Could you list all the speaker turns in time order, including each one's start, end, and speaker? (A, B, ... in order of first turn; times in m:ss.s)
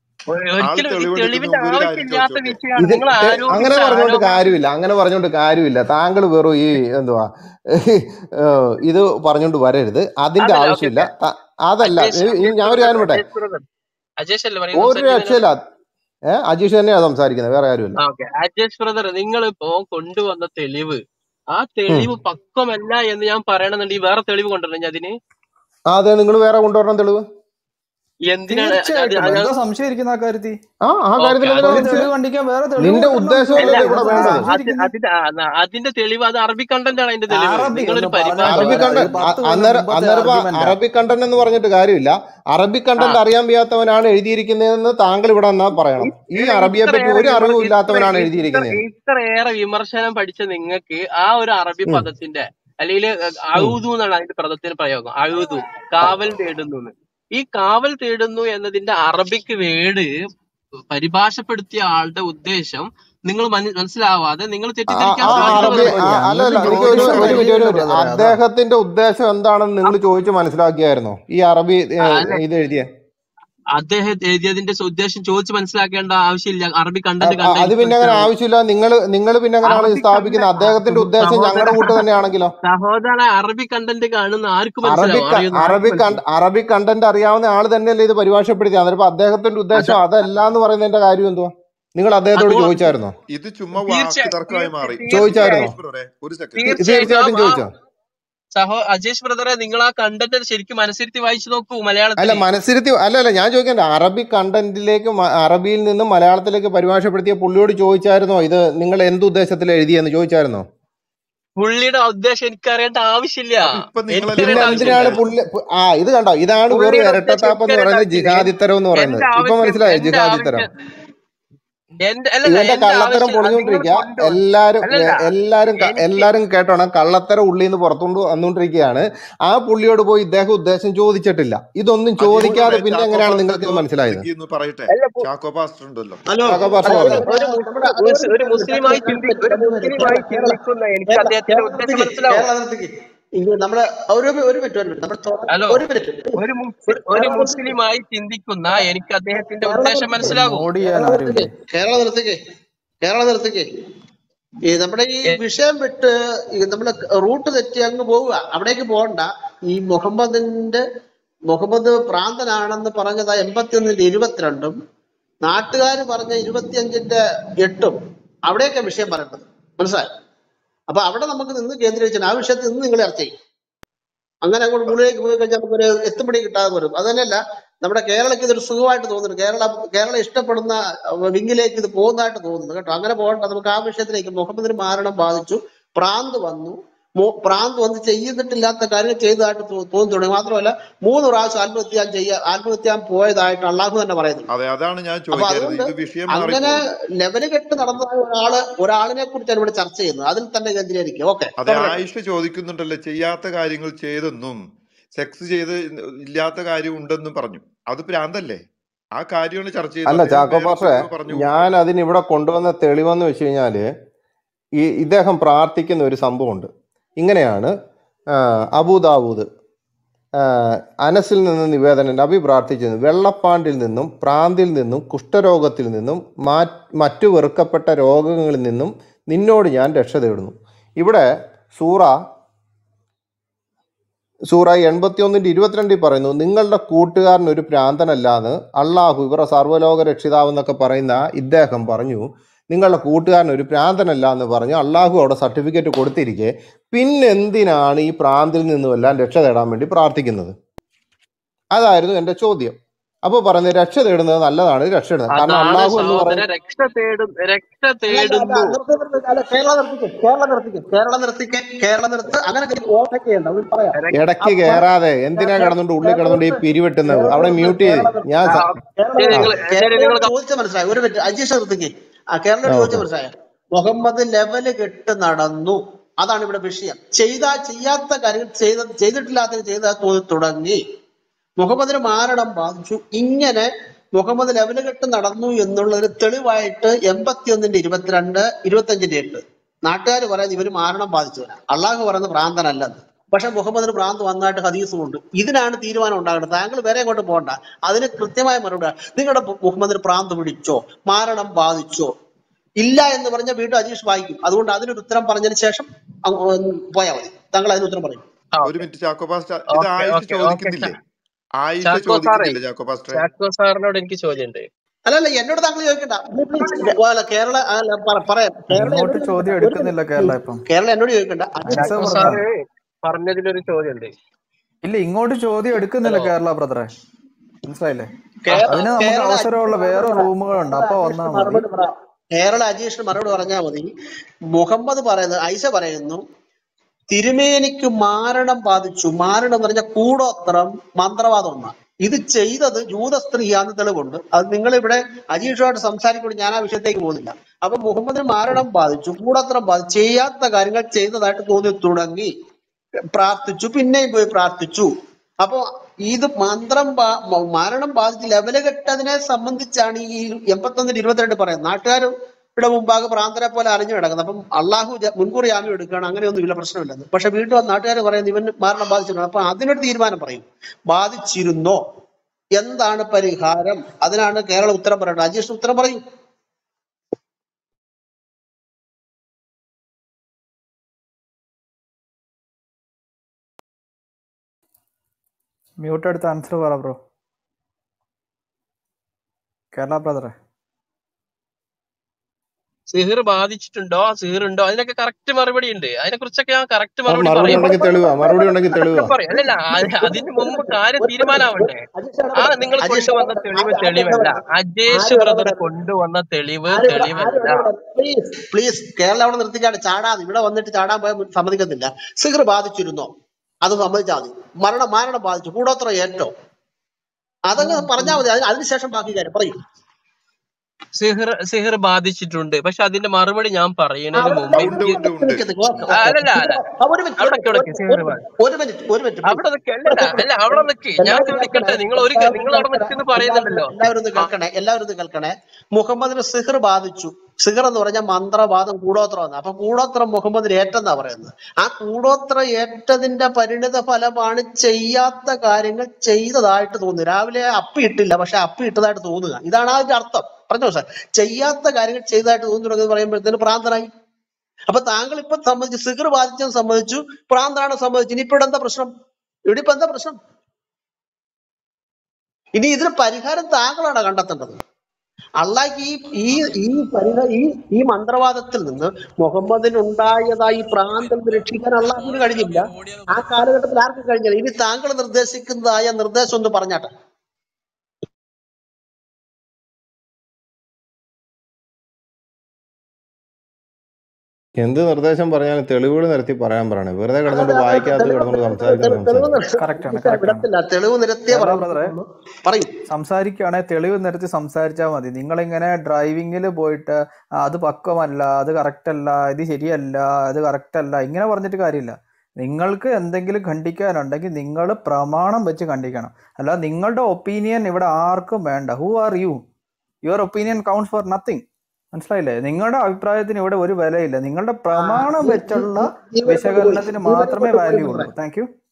0:00.3-0:04.5 A
0:00.6-0:02.6 B
0:02.8-0:13.2 C
0:10.4-0:11.1 A
0:11.8-0:13.6 A
0:14.2-0:15.4 A
0:14.7-0:15.6 C
0:16.3-0:18.0 C
0:18.0-0:21.0 A
0:21.5-0:25.1 A
0:25.9-0:27.2 C
0:28.3-0:29.6 A
0:28.5-0:30.6 D
0:30.8-0:32.1 C
0:31.2-0:32.1 A
0:31.6-0:34.9 D
0:32.8-0:34.5 C
0:33.6-0:39.1 A
0:37.3-0:40.8 D
0:38.4-0:48.8 C
0:46.0-1:00.1 A
1:00.9-1:06.2 A
1:04.9-1:12.9 C
1:05.3-1:08.4 D
1:06.6-1:07.5 B
1:12.1-1:12.4 A
1:13.7-1:18.3 A
1:17.2-1:22.5 C
1:19.6-1:22.0 A
1:22.6-1:26.2 A
1:24.8-1:33.1 C
1:32.4-1:32.9 A
1:33.3-1:36.7 B
1:33.8-1:35.6 A
1:35.1-1:35.7 C
1:36.6-1:37.6 A
1:36.7-1:37.7 C
1:38.5-1:42.4 A
1:42.2-1:50.6 C
1:51.6-1:55.2 A
1:53.6-1:55.2 B
1:54.4-2:00.6 C
1:56.7-2:00.6 A
2:02.0-2:05.2 A
2:02.5-2:14.2 C
2:05.8-2:06.3 A
2:12.2-2:16.8 B
2:14.9-2:15.2 A
2:16.3-2:27.7 E
2:16.4-2:17.2 C
2:16.8-2:22.5 A
2:25.5-2:25.8 A
2:26.4-2:30.7 A
2:29.6-2:32.4 E
2:30.2-2:31.5 D
2:33.0-2:33.7 E
2:34.7-2:40.8 E
2:41.5-2:44.8 E
2:45.4-2:50.1 E
2:50.9-2:53.3 E
2:54.4-3:14.5 E
3:14.5-3:16.9 B
3:15.3-3:22.0 E
3:21.6-3:24.6 B
3:25.1-3:28.6 B
3:29.1-3:31.7 B
3:30.0-3:33.8 C
3:34.8-3:37.7 C
3:38.3-3:39.5 C
3:40.4-3:52.2 C
3:54.5-4:10.5 C
4:11.7-4:16.4 C
4:15.3-4:18.8 A
4:18.1-4:24.8 E
4:23.9-4:24.2 A
4:24.1-4:28.6 C
4:25.4-4:40.8 E
4:28.5-4:30.3 A
4:32.6-4:33.0 C
4:41.6-5:02.1 E
5:02.8-5:08.2 E
5:08.5-5:08.8 A
5:08.6-5:11.0 B
5:09.7-5:10.9 A
5:11.6-5:13.2 B
5:11.8-5:12.6 A
5:13.1-5:14.7 A
5:15.1-5:22.4 E
5:18.7-5:20.6 D
5:21.6-5:22.4 D
5:21.7-5:24.1 A
5:24.8-5:26.9 D
5:26.0-5:26.3 A
5:27.6-5:28.1 D
5:28.4-5:33.9 E
5:28.5-5:28.8 A
5:28.7-5:31.6 D
5:34.5-5:36.2 E
5:37.1-5:52.3 E
5:53.1-5:54.9 E
5:55.4-6:11.8 E
6:12.5-6:16.0 E
6:25.8-6:27.0 D
6:29.7-6:30.3 D
6:32.9-6:37.7 A
6:37.1-6:39.1 C
6:37.4-6:44.4 E
6:38.8-6:41.8 A
6:42.4-6:47.7 A
6:44.9-6:45.6 E
6:46.7-6:53.1 E
6:53.6-6:56.3 E
6:57.4-6:59.5 E
6:57.6-6:58.2 A
7:01.0-7:05.0 A
7:04.1-7:33.9 E
7:04.5-7:05.4 B
7:05.9-7:06.6 A
7:07.2-7:08.2 A
7:09.2-7:14.3 A
7:34.7-7:38.9 E
7:39.5-7:40.2 E
7:42.6-7:44.6 E
7:45.4-7:56.9 E
7:46.3-7:46.6 A
7:51.0-7:53.4 A
8:04.6-8:09.4 C
8:07.2-8:12.7 E
8:09.6-8:10.4 D
8:11.3-8:11.9 D
8:12.9-8:29.4 D
8:30.0-8:38.5 D
8:34.7-8:38.1 E